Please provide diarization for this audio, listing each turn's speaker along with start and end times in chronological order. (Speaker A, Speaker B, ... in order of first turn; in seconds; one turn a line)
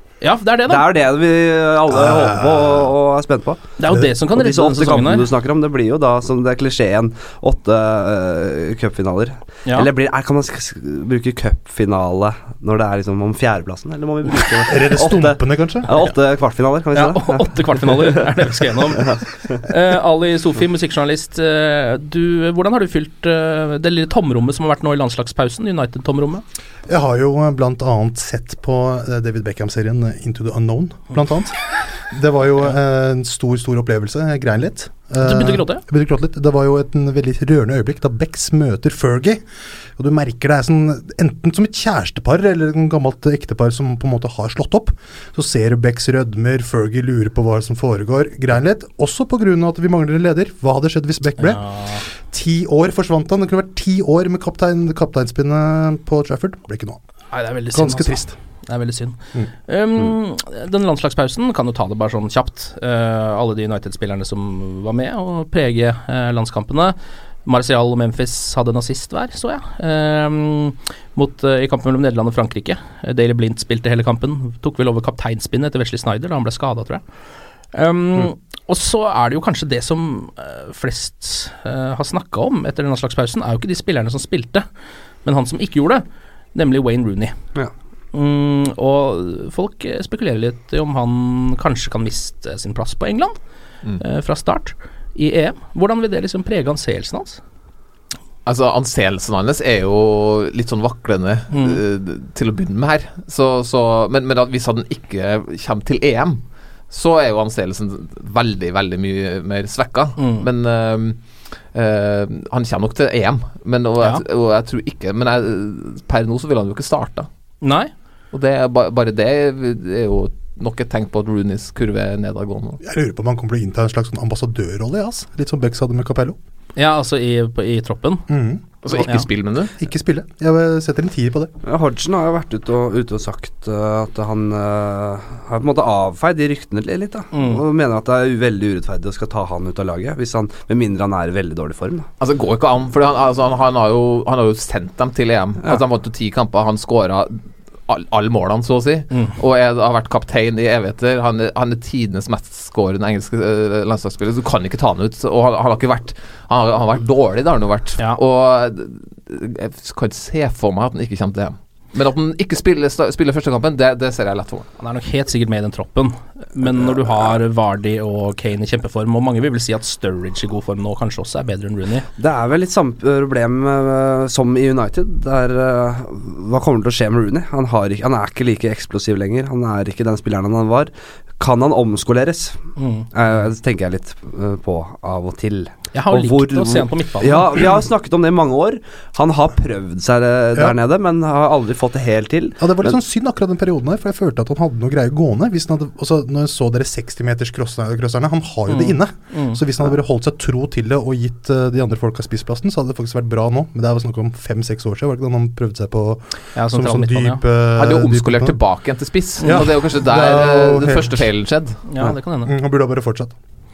Speaker A: 0.2-0.8
Speaker B: 0.7-3.6
Speaker C: 1.9-2.9
Speaker A: 3.8-5.2
Speaker B: 4.2-19.6
Speaker C: 14.7-15.9
Speaker A: 16.9-26.4
Speaker C: 26.9-39.4
Speaker A: 35.2-35.8
Speaker C: 40.0-57.0
Speaker A: 51.4-52.0
Speaker A: 57.3-77.0
Speaker C: 57.7-58.4
Speaker A: 77.7-84.7
Speaker A: 85.2-87.3
Speaker A: 88.1-93.4
Speaker A: 94.0-97.4
Speaker D: 98.5-117.3
Speaker A: 101.5-101.8
Speaker A: 110.2-110.5
Speaker A: 117.6-117.9
Speaker D: 118.3-122.8
Speaker C: 122.8-126.4
Speaker A: 126.8-128.2
Speaker C: 128.3-129.1
Speaker D: 128.8-129.7
Speaker C: 129.8-131.5
Speaker B: 131.6-142.1
Speaker A: 137.3-137.6
Speaker D: 142.2-164.7
Speaker A: 164.8-172.1
Speaker B: 166.6-167.2
Speaker B: 172.2-192.9
Speaker A: 182.8-183.1
Speaker A: 185.9-187.6
Speaker C: 192.6-208.6
Speaker A: 198.7-199.6
Speaker A: 206.5-207.4
Speaker D: 207.8-211.8
Speaker A: 209.4-209.7
Speaker C: 209.4-211.3
Speaker A: 211.9-212.5
Speaker C: 212.0-213.3